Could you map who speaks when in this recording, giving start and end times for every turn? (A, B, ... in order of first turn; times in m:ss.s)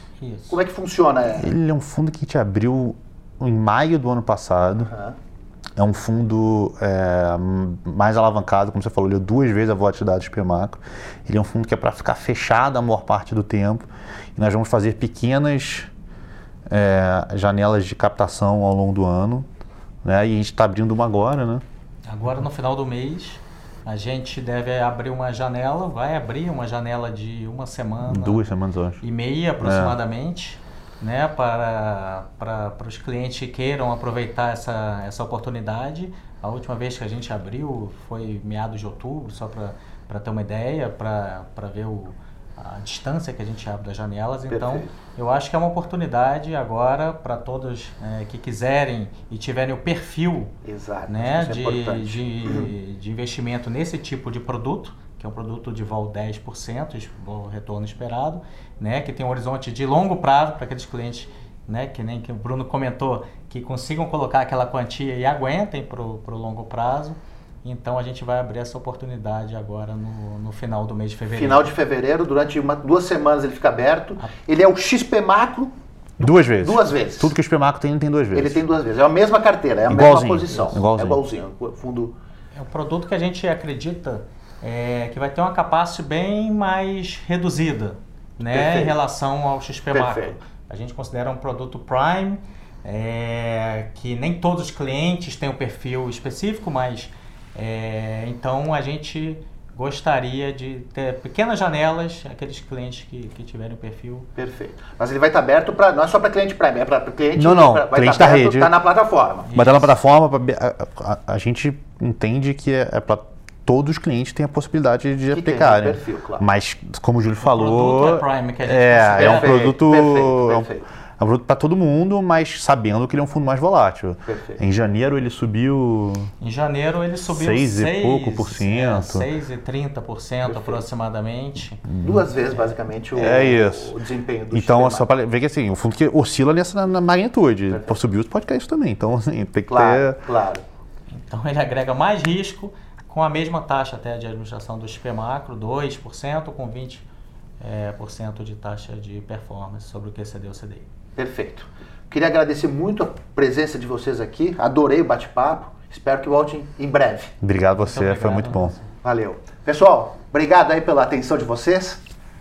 0:00.2-0:00.6 A
0:00.5-0:01.5 B
0:01.4-0:04.9 C
0:04.9-0:05.2 B
0:05.8-0:15.9 C
0:16.7-0:19.5 C
0:20.0-0:21.6 C
0:22.1-0:28.5 A
0:28.0-0:29.0 C
0:29.0-0:50.5 A
0:29.6-0:30.0 C
0:44.5-0:44.9 B
0:50.6-0:52.7 B
0:51.1-1:11.7 A
1:11.3-1:15.7 B
1:16.2-1:18.6 C
1:16.5-1:17.3 B
1:18.3-1:22.2 B
1:19.9-1:21.2 C
1:22.6-1:44.3 A
1:28.5-1:29.0 B
1:29.9-1:30.4 B
1:44.4-1:49.5 B
1:47.4-1:48.7 C
1:49.5-1:49.9 A
1:49.6-2:06.3 C
1:55.3-1:56.5 B
1:57.4-1:59.6 A
1:59.2-2:00.9 B
2:04.3-2:04.6 B
2:06.4-2:11.9 A
2:07.3-2:09.3 C
2:10.4-2:10.8 B
2:11.9-2:12.2 C
2:12.0-2:15.1 B
2:13.2-2:14.0 C
2:14.5-2:20.2 C
2:17.7-2:18.0 B
2:19.7-2:20.6 B
2:21.1-2:27.0 A
2:27.6-2:30.9 A
2:31.2-2:37.4 B
2:37.4-2:38.8 C
2:37.8-2:38.8 A
2:39.0-2:42.0 B